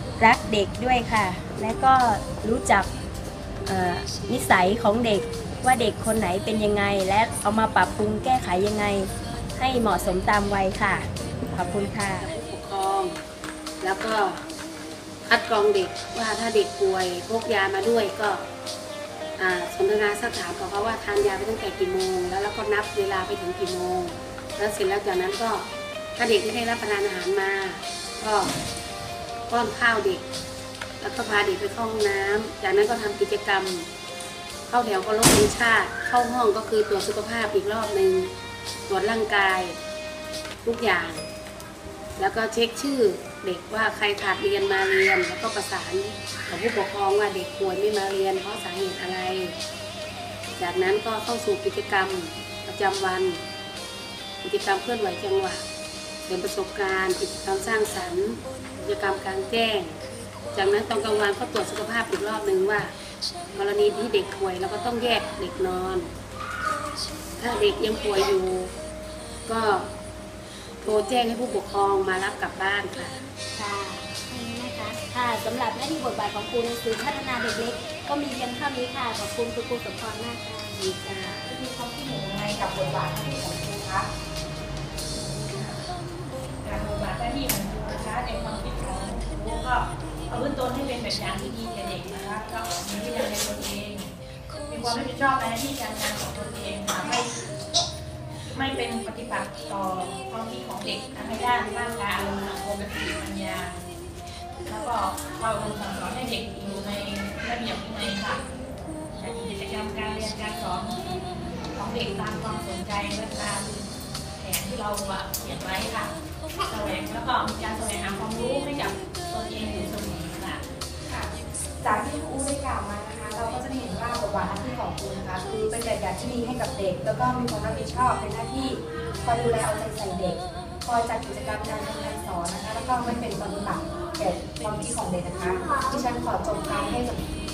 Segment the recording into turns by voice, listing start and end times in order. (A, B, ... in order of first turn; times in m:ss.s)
0:00.2-0:02.9 A
0:03.6-0:12.3 A
0:11.6-0:13.2 B
0:13.8-0:14.4 B
0:15.2-0:18.4 B
0:19.4-0:28.5 B
0:29.5-0:30.2 B
0:31.0-0:33.9 B
0:34.7-0:38.3 B
0:38.9-0:39.8 B
0:40.6-0:41.3 B
0:42.2-0:49.6 B
0:50.6-0:53.4 B
0:54.4-0:55.6 B
0:56.2-1:00.0 B
1:00.5-1:02.9 B
1:03.5-1:06.1 B
1:07.4-1:08.7 B
1:09.5-1:09.9 B
1:10.8-1:13.2 B
1:13.6-1:21.4 A
1:21.4-1:24.1 C
1:25.5-1:25.8 D
1:26.6-1:37.6 D
1:38.5-1:43.9 D
1:44.6-1:48.5 D
1:49.1-2:00.6 D
2:01.1-2:17.2 C